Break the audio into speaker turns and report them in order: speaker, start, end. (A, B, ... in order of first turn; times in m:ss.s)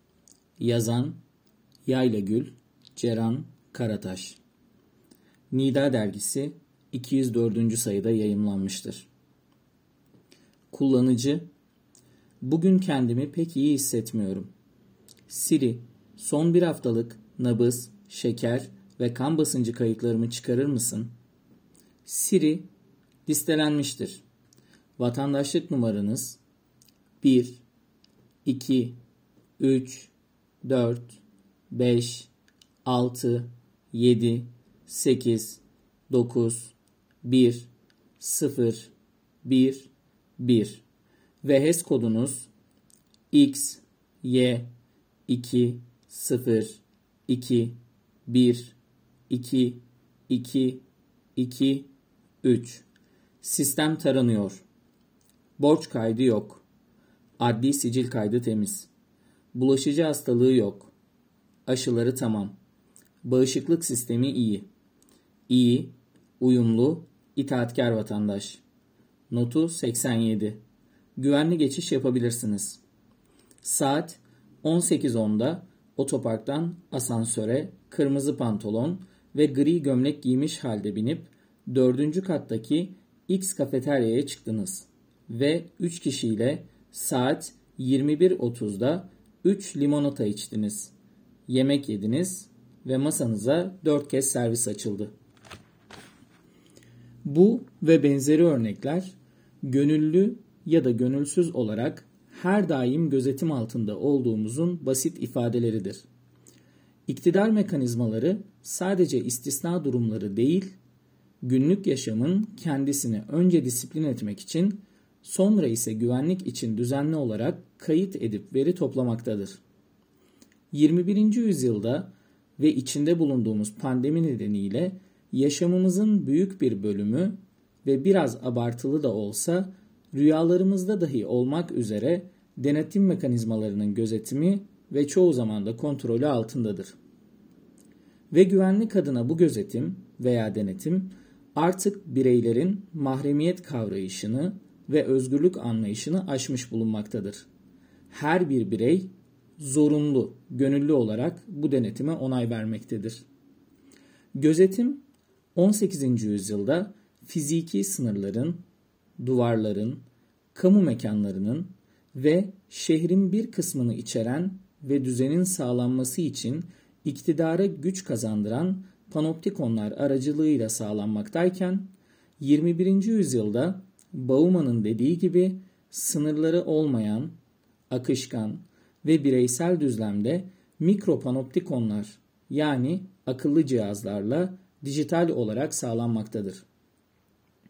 0:00.6-0:01.2 A
0:01.8-0:04.4 A
0:05.5-0:09.1 A
0:10.7-0:11.4 A
0:12.4-0:14.5 A
0:15.3-0:21.1 A
0:22.0-0:22.7 A
0:23.2-0:24.2 A
0:25.0-0:26.4 A
0:27.2-0:27.6 A
0:28.4-0:29.0 A
0:29.6-0:30.1 A
0:30.6-0:31.2 A
0:31.7-0:32.3 A
0:32.8-0:38.9 A
0:39.4-0:40.8 A
0:41.4-0:42.5 A
0:43.3-0:44.7 A
0:45.3-0:48.8 A
0:49.3-0:50.8 A
0:51.4-0:51.9 A
0:52.4-0:52.8 A
0:53.4-0:54.6 A
0:55.6-0:56.6 A
0:57.4-0:58.9 A
0:59.5-1:00.9 A
1:01.6-1:02.5 A
1:03.2-1:04.6 A
1:05.5-1:08.6 A
1:09.3-1:10.6 A
1:11.2-1:12.8 A
1:13.6-1:30.9 A
1:31.5-1:35.1 A
1:37.2-1:46.0 A
1:47.1-1:50.8 A
1:51.4-1:59.6 A
2:00.7-2:17.0 A
2:18.3-2:27.4 A
2:28.1-2:33.2 A
2:34.3-2:35.0 A
2:35.5-2:38.6 A
2:39.2-2:40.0 A
2:40.5-2:51.9 A
2:52.4-2:57.3 A
2:57.9-3:06.6 A